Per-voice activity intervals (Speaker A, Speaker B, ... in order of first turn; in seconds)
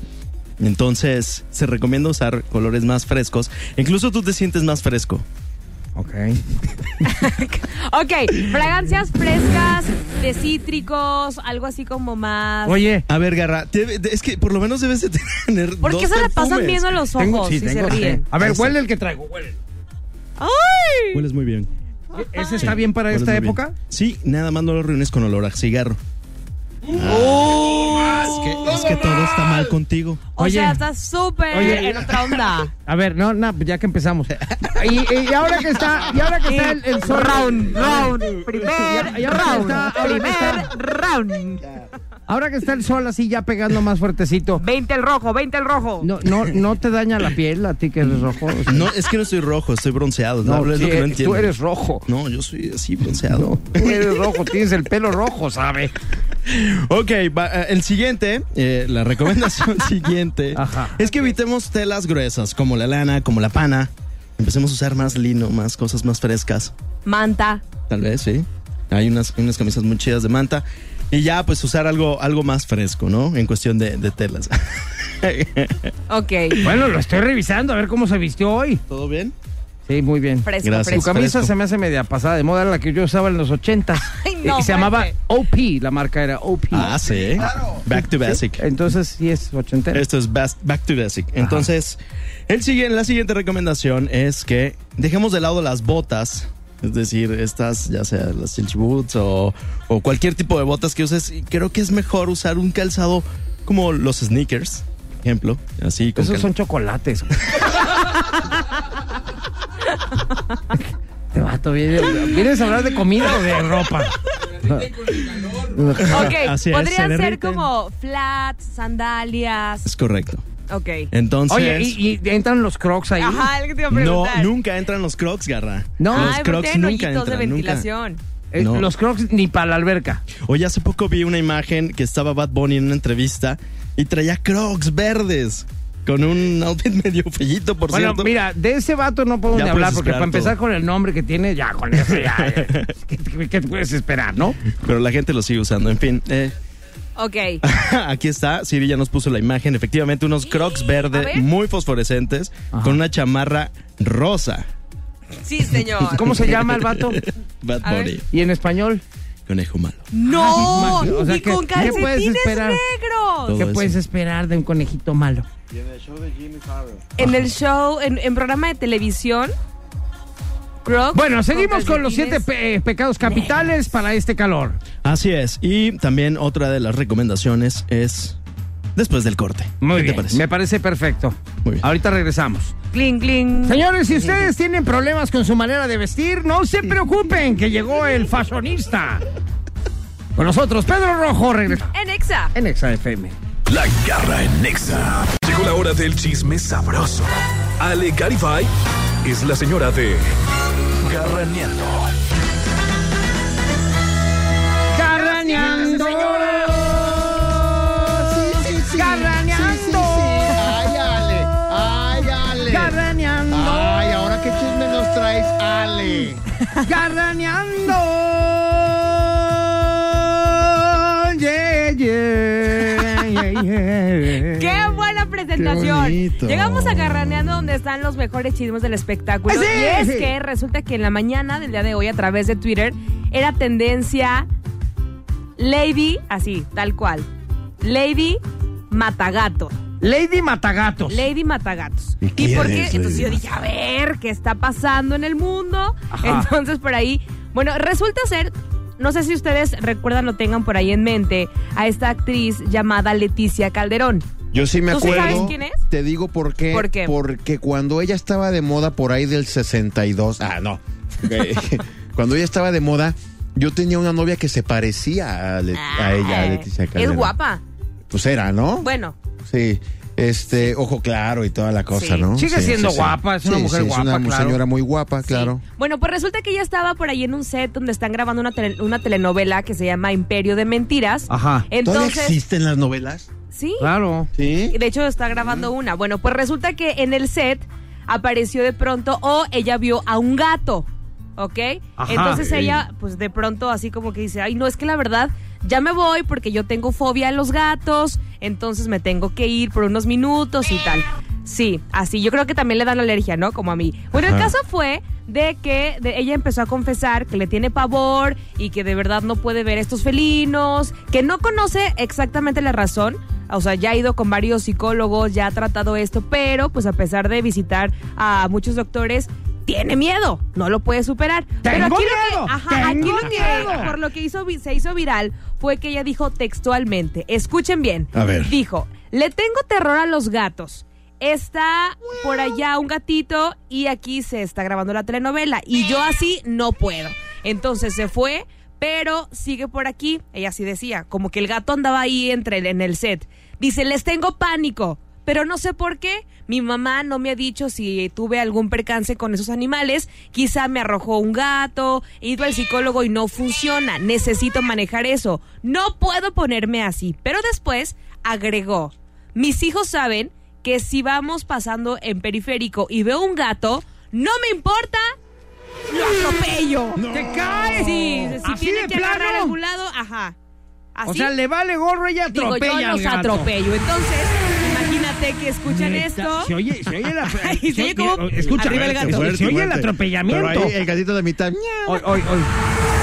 Speaker A: 0.6-5.2, 13.1-16.9, 18.4-18.7, 21.1-21.7, 22.6-26.0, 26.9-30.2, 48.1-51.5, 52.0-54.4, 56.4-66.7, 67.9-75.9, 78.9-79.3, 80.6-81.5, 86.7-88.6, 89.9-106.5, 115.9-117.7, 119.8-120.4, 121.1-122.0, 123.9-127.8, 128.6-128.9, 130.3-138.3, 139.5-140.5, 142.2-142.9, 144.7-146.5, 147.6-154.7, 155.7-158.2, 159.5-160.1, 163.5-164.0, 175.0-178.4, 178.9-180.4
Speaker B: 6.0-6.4, 12.7-13.0, 17.2-19.6, 22.1-23.7, 30.4-30.8, 31.5-40.7, 42.3-44.6, 46.0-48.9, 50.4-52.0, 53.3-55.9, 60.5-61.0, 76.6-78.8, 79.9-87.0, 87.9-90.0, 106.2-107.4, 111.3-116.3, 121.5-123.5, 126.0-126.3, 128.5-130.2, 137.9-144.6, 152.7-153.0, 156.1-157.2, 158.3-159.0, 160.3-162.8, 163.5-165.5, 171.1-174.8, 179.8-182.8, 183.6-189.2, 190.4-191.9, 192.5-193.3, 204.9-210.8, 212.7-214.0, 216.8-224.9, 229.5-230.3, 240.0-241.2, 246.1-246.5, 255.0-255.5, 272.4-274.6, 281.3-281.7, 283.8-284.3, 292.0-292.7, 321.6-323.9, 367.1-369.6, 371.1-373.5, 375.7-380.8, 381.9-382.5
Speaker C: 7.0-12.8, 15.8-18.2, 20.4-21.2, 22.4-22.7, 27.0-29.2, 30.4-32.7, 36.4-41.6, 44.6-46.1, 67.0-67.6, 76.1-76.6, 80.4-81.2, 84.1-85.1, 116.0-119.9, 120.7-121.1, 123.2-124.5, 126.1-128.2, 147.2-147.6, 150.4-151.4, 155.4-156.3, 157.8-158.1, 160.1-163.6, 167.2-169.5, 170.8-172.4, 182.9-183.8, 191.9-192.5, 224.4-234.5, 235.6-237.3, 237.8-239.8, 241.1-254.2, 254.9-255.8, 256.7-257.1, 265.7-267.6, 268.8-269.1, 271.9-272.3, 275.2-282.4, 283.5-283.9, 284.7-365.1, 365.9-367.0, 367.8-370.3, 370.9-371.3, 372.3-376.5, 377.2-379.3
Speaker D: 27.8-28.1, 28.7-29.0, 87.2-87.8, 165.7-167.1, 205.6-213.0, 213.5-216.4, 225.6-227.7, 242.2-243.4, 254.5-267.3, 268.1-268.9, 269.4-275.6, 281.8-283.3, 284.3-284.8, 304.1-304.5, 328.1-328.5, 366.9-368.1, 378.5-382.1
Speaker E: 193.7-198.7, 199.2-200.2, 201.0-202.1